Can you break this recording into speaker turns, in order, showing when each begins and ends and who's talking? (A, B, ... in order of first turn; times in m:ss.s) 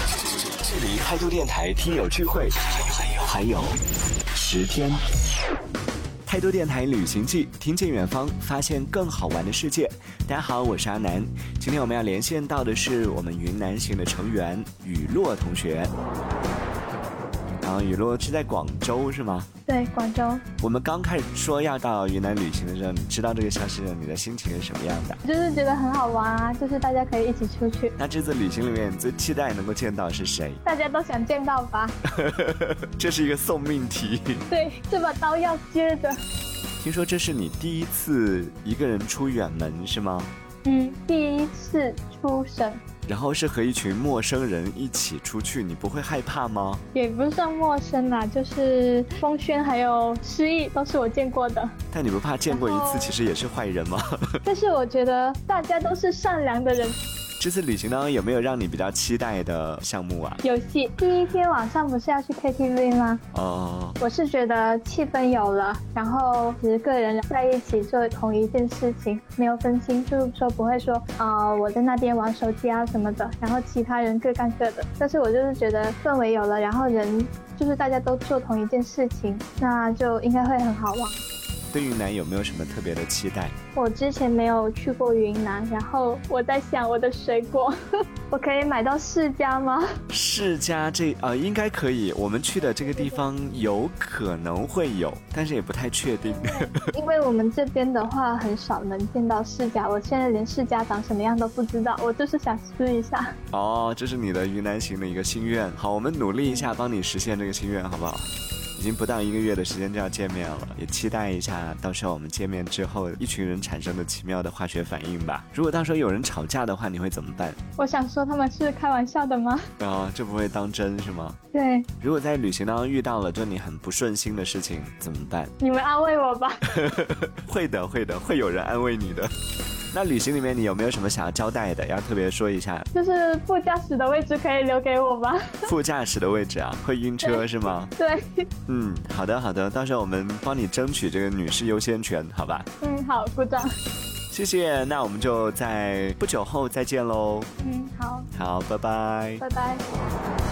0:00.4-0:03.8 A
0:04.3-0:05.0 A
0:06.2-0:15.9 A
0:17.6-0:19.5 A
0:19.7-0:20.4 B
0:20.6-0:25.2 A
0:25.2-0:28.0 B
0:28.0-0:30.6 A
0:30.6-0:32.0 B
0:32.2-0:34.4 A
0:34.5-0:36.2 B
0:36.8-0:40.3 A
0:40.6-0:42.8 B
0:43.1-0:46.8 A
0:46.9-0:51.7 B
0:51.9-0:54.4 A
0:52.5-0:53.2 B
0:54.4-0:57.0 B
0:57.4-1:00.4 A
1:00.4-1:03.2 B
1:03.3-1:04.0 A
1:04.0-1:21.2 B
1:21.7-1:23.6 A
1:23.7-1:27.7 B
1:28.3-1:29.9 B
1:30.1-1:36.8 A
1:32.7-1:33.2 B
1:36.3-1:43.3 B
1:43.5-1:57.6 A
1:46.4-1:46.7 B
1:57.8-1:59.6 B
1:59.8-2:01.4 A
2:01.5-2:01.9 B
2:02.0-2:05.5 A
2:05.6-2:06.7 B
2:06.8-2:09.3 A
2:09.9-2:12.9 A
2:12.9-2:15.7 B
2:15.6-2:17.9 A
2:18.0-2:18.5 B
2:18.7-2:22.7 A
2:22.8-2:23.7 B
2:24.3-2:27.5 A
2:27.6-2:28.3 B
2:28.3-2:29.4 A
2:29.4-2:29.8 B